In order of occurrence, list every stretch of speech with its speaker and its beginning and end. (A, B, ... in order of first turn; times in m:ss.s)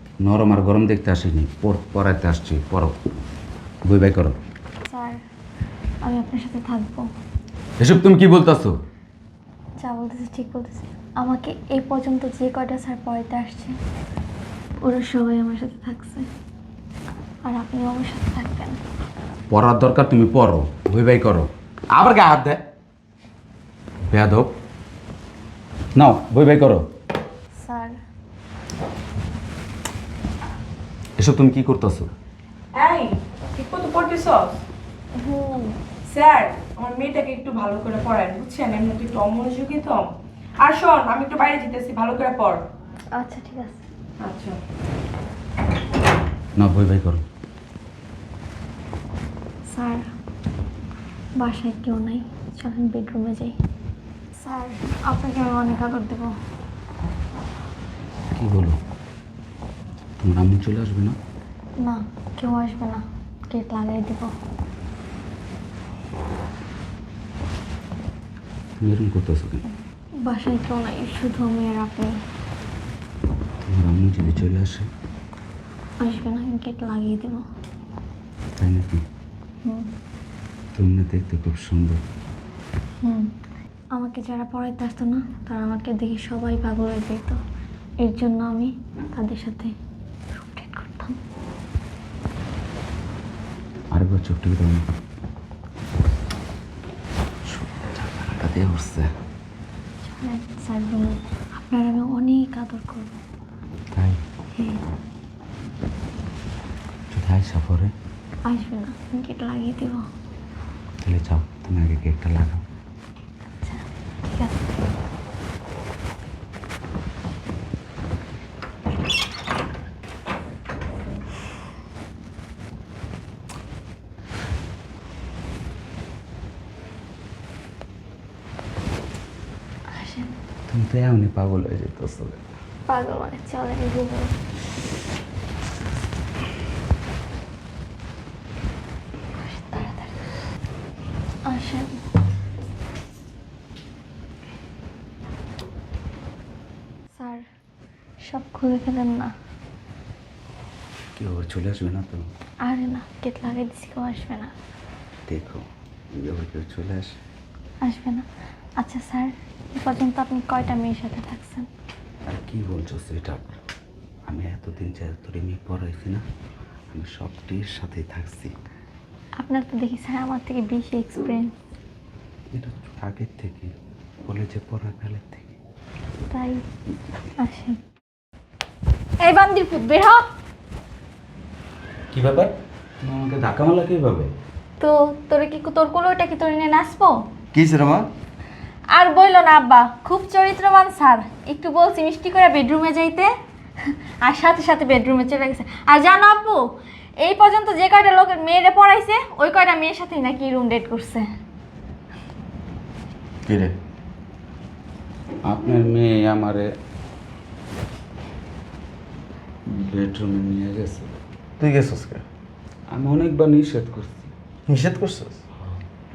0:00.2-0:03.0 A
0:03.9-0:04.4 A
0:04.9-0:05.2 B
0:06.0-0:07.1 B
0:07.8-0:08.8 A
0:09.8-0:13.8 B
0:14.8-0:16.3 B
0:17.4-0:18.8 B
0:19.5-0:22.6 A
0:24.1-0:24.5 A
0:26.0-0:26.8 A
0:27.6-0:28.0 B
0:31.2-0:32.1 A
0:32.7-0:34.6 C
0:35.2-0:35.8 B
0:36.0-0:42.6 C
0:43.1-0:43.8 B
0:44.2-0:44.6 C
0:46.6-0:47.2 A
0:49.7-0:50.1 B
0:51.4-0:53.5 B
0:54.4-0:56.3 B
0:58.4-0:58.8 A
1:00.2-1:01.2 A
1:01.8-1:04.3 B
1:08.8-1:09.6 A
1:10.2-1:12.2 B
1:13.6-1:14.9 A
1:16.0-1:17.4 B
1:18.6-1:19.0 A
1:20.7-1:22.0 A
1:23.9-1:27.4 B
1:28.0-1:29.7 B
1:30.3-1:31.2 B
1:33.9-1:34.8 A
1:37.5-1:39.1 A
1:40.0-1:43.1 B
1:43.9-1:44.2 A
1:44.5-1:44.8 B
1:47.1-1:47.9 A
1:48.5-1:50.1 B
1:51.0-1:52.6 A
1:53.6-1:54.6 B
2:09.9-2:10.3 B
2:10.7-2:12.4 A
2:12.9-2:14.3 B
2:19.4-2:20.1 B
2:21.5-2:21.9 B
2:27.1-2:27.5 B
2:28.2-2:29.3 B
2:31.2-2:32.3 A
2:32.6-2:34.5 B
2:35.3-2:37.2 A
2:37.8-2:38.2 B
2:38.8-2:41.7 B
2:42.3-2:43.6 A
2:44.3-2:46.2 A
2:46.9-2:48.5 A
2:49.4-2:51.5 B
2:52.5-2:53.7 A
2:54.2-2:55.6 A
2:56.3-2:56.6 B
2:57.4-2:57.8 B
2:59.2-3:00.3 B
3:02.1-3:04.3 A
3:04.8-3:07.2 B
3:07.5-3:08.1 D
3:08.9-3:13.3 B
3:13.9-3:16.7 B
3:17.2-3:21.3 B
3:23.4-3:23.7 D
3:25.5-3:26.7 A
3:29.7-3:31.1 A
3:31.6-3:32.2 D
3:32.9-3:34.3 A
3:34.7-3:35.4 D